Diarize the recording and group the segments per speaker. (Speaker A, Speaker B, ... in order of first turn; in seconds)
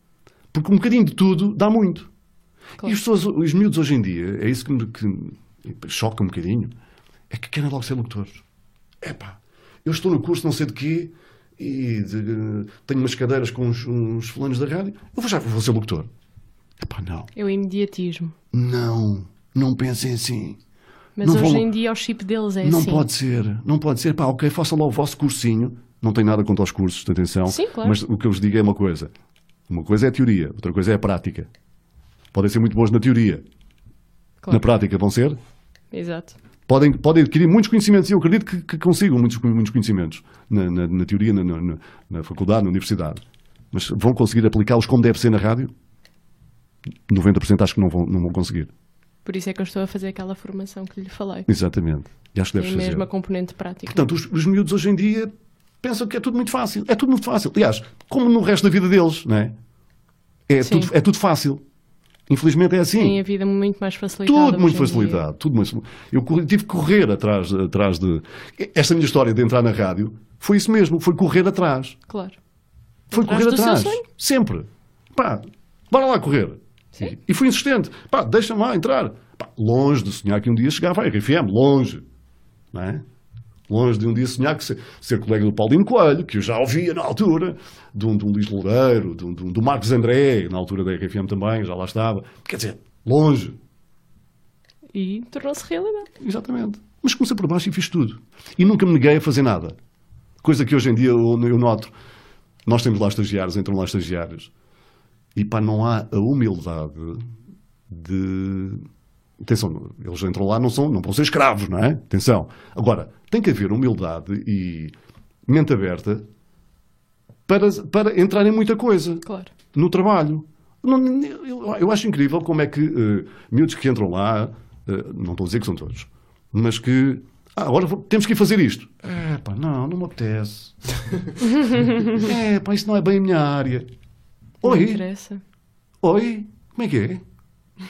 Speaker A: 0.5-2.1, 2.8-6.7, 7.3-8.4, 9.0-16.1, 16.8-17.3, 18.5-20.6, 21.2-21.7, 22.6-29.1, 29.7-31.5, 32.3-33.4, 34.5-35.4, 36.7-43.2, 43.7-45.7, 47.1-48.7, 51.5-53.1, 53.9-59.6, 60.5-61.6, 62.3-63.2, 64.2-72.0, 73.1-82.0, 82.7-83.0, 83.7-93.6, 96.2-99.8, 100.4-101.9, 102.7-104.5, 105.3-107.2, 107.9-108.8, 109.4-114.9, 115.5-116.3, 117.5-130.8, 131.6-133.9, 134.6-135.0, 136.0-137.2
Speaker B: 17.4-18.4, 21.2-23.1, 27.5-28.0, 35.9-36.4, 49.2-51.5, 52.6-54.1, 60.6-60.9, 63.0-65.2, 72.1-72.4, 73.1-74.0, 94.9-96.1, 119.2-119.5, 134.6-135.4